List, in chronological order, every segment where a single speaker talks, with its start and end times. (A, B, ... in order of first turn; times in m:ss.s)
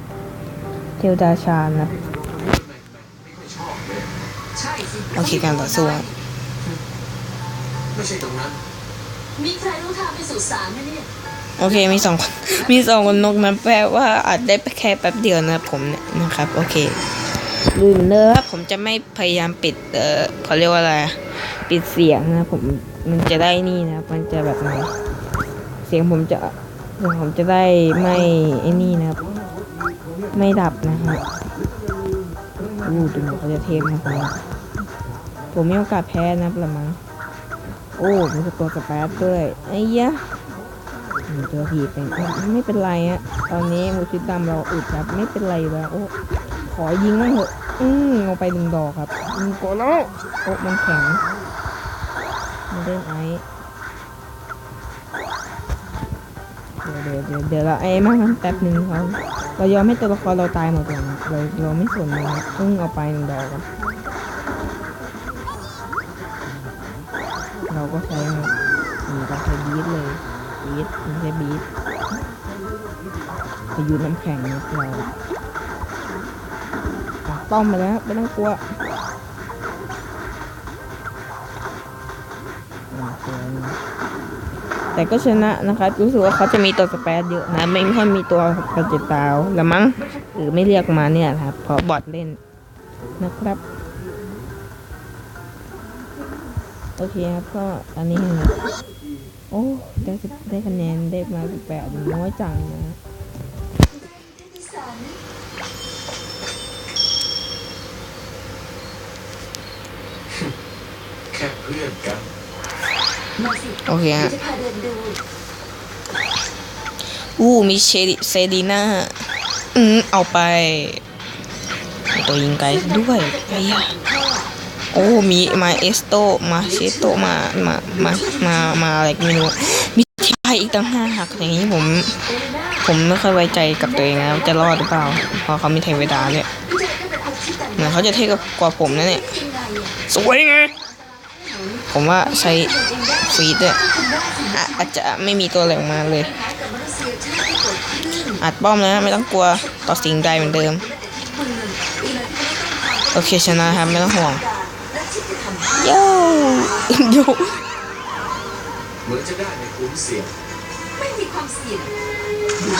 0:01.0-0:01.9 A
0:02.4-0:04.0 B
0:04.6-0:06.1 C
0:05.0-0:06.1 A
0:07.9-0:08.6 B
0:09.4-0:11.1 C
0:11.6-0:17.0 A
0:17.7-0:24.9 A
0:25.8-0:29.2 A
0:30.3-0:31.2 A
0:32.8-0:34.4 A
0:35.5-0:37.0 A
0:38.0-0:40.3 A
0:41.3-0:51.2 A
0:52.7-0:53.4 A
0:56.8-1:03.6 A
1:07.7-1:08.5 A
1:09.1-1:11.6 A
1:13.7-1:15.1 A
1:17.2-1:18.6 A
1:22.9-1:23.8 A
1:24.9-1:32.4 A
1:33.2-1:33.6 A
1:37.0-1:38.7 A
1:39.5-1:43.0 A
1:43.9-1:45.2 C
1:51.3-1:52.3 B
1:53.4-1:53.8 C
1:53.8-1:54.4 A
1:54.3-1:55.2 C
1:57.1-1:59.2 A
1:59.7-2:01.0 A
2:02.1-2:04.0 A
2:03.0-2:04.5 C
2:04.9-2:16.5 A
2:12.3-2:12.8 C
2:16.4-2:18.4 C
2:17.7-2:19.4 A
2:19.2-2:19.9 C
2:20.0-2:20.8 A
2:21.9-2:26.4 A
2:22.4-2:24.6 C
2:26.2-2:28.4 C
2:28.3-2:30.8 A
2:29.7-2:35.8 C
2:33.1-2:34.4 A
2:35.7-2:37.6 A
2:39.0-2:40.3 B
2:41.0-2:41.9 C